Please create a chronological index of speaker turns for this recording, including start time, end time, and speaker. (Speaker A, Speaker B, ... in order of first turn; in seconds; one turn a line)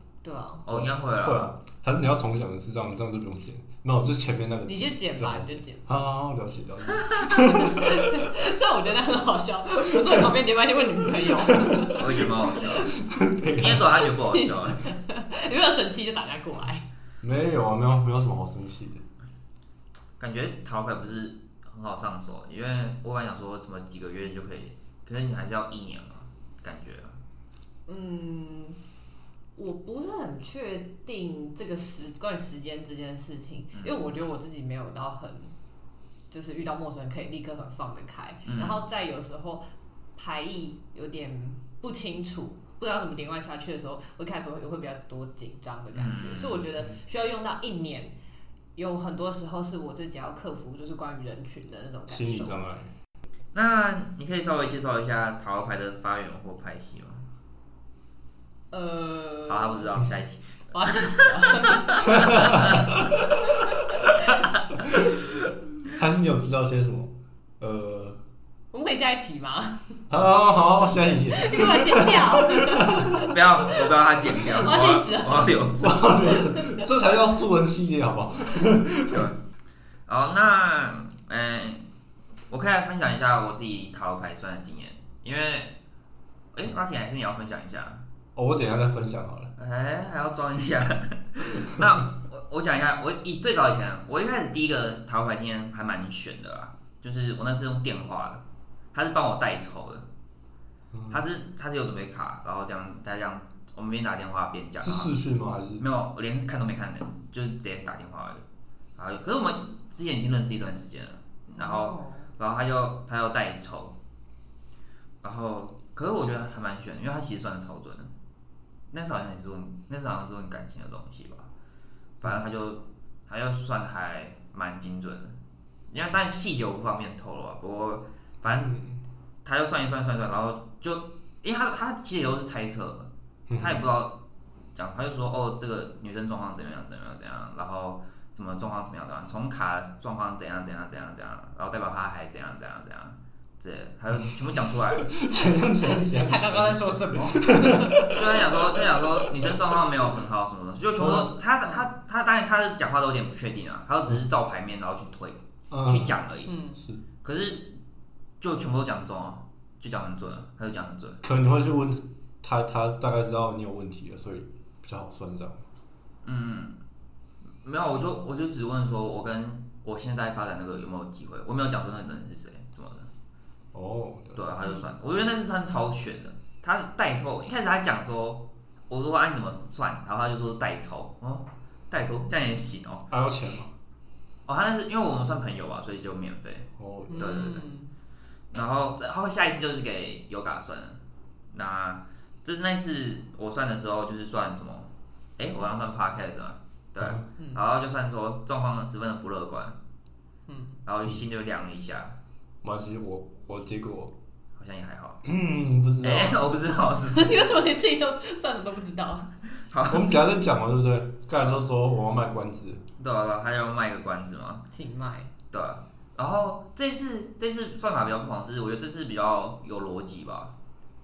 Speaker A: 0.2-0.7
Speaker B: 0.7-1.5
Speaker C: 0.7-8.3
Speaker A: 4.7-5.8
Speaker A: 7.2-12.9
Speaker C: 11.0-14.1
Speaker B: 11.9-12.9
Speaker B: 13.4-14.9
Speaker A: 14.1-16.9
Speaker C: 17.2-19.0
Speaker B: 20.2-27.2
Speaker A: 27.9-28.8
Speaker A: 29.6-35.5
Speaker B: 33.7-34.0
Speaker A: 36.3-39.6
Speaker B: 38.5-38.8
Speaker A: 40.2-48.1
Speaker B: 45.9-46.7
Speaker A: 48.8-52.6
Speaker C: 52.1-52.9
Speaker B: 53.5-57.3
Speaker A: 58.7-60.1
Speaker B: 59.5-62.9
Speaker A: 60.7-62.7
Speaker C: 62.1-63.1
Speaker B: 64.3-64.8
Speaker C: 64.9-65.2
Speaker C: 65.9-68.2
Speaker A: 68.7-70.0
Speaker C: 70.1-73.3
Speaker A: 71.3-73.4
Speaker B: 73.2-76.3
Speaker A: 74.4-75.6
Speaker C: 75.8-79.3
Speaker A: 76.3-76.8
Speaker B: 79.1-79.4
Speaker B: 80.1-81.9
Speaker B: 82.5-85.8
Speaker B: 86.5-88.0
Speaker C: 88.3-89.5
Speaker B: 89.6-98.4
Speaker B: 98.9-100.0
Speaker B: 101.1-105.1
Speaker C: 104.8-105.8
Speaker B: 105.8-108.4
Speaker B: 109.0-114.0
Speaker A: 111.6-112.3
Speaker B: 115.2-118.1
Speaker B: 118.9-121.5
Speaker B: 122.2-125.4
Speaker B: 125.9-128.8
Speaker C: 128.6-129.0
Speaker B: 129.4-134.2
Speaker C: 133.5-133.8
Speaker B: 134.7-145.1
Speaker C: 145.1-149.6
Speaker A: 145.5-148.2
Speaker B: 148.1-156.5
Speaker C: 151.0-151.3
Speaker C: 155.7-156.2
Speaker A: 156.5-156.8
Speaker C: 156.8-157.0
Speaker B: 157.2-157.7
Speaker B: 158.4-161.2
Speaker C: 161.2-165.6
Speaker B: 166.2-166.8
Speaker B: 167.6-173.1
Speaker C: 173.7-174.5
Speaker B: 174.3-183.1
Speaker C: 183.1-183.7
Speaker B: 184.5-187.7
Speaker C: 186.8-187.4
Speaker A: 187.1-187.9
Speaker B: 188.5-191.0
Speaker B: 191.5-199.8
Speaker A: 200.5-200.8
Speaker B: 200.8-202.2
Speaker C: 202.6-204.1
Speaker B: 204.6-205.2
Speaker C: 205.2-206.4
Speaker B: 206.0-207.5
Speaker A: 207.1-209.3
Speaker B: 209.7-210.1
Speaker C: 209.9-212.8
Speaker B: 213.0-214.7
Speaker A: 214.7-215.3
Speaker B: 215.5-220.5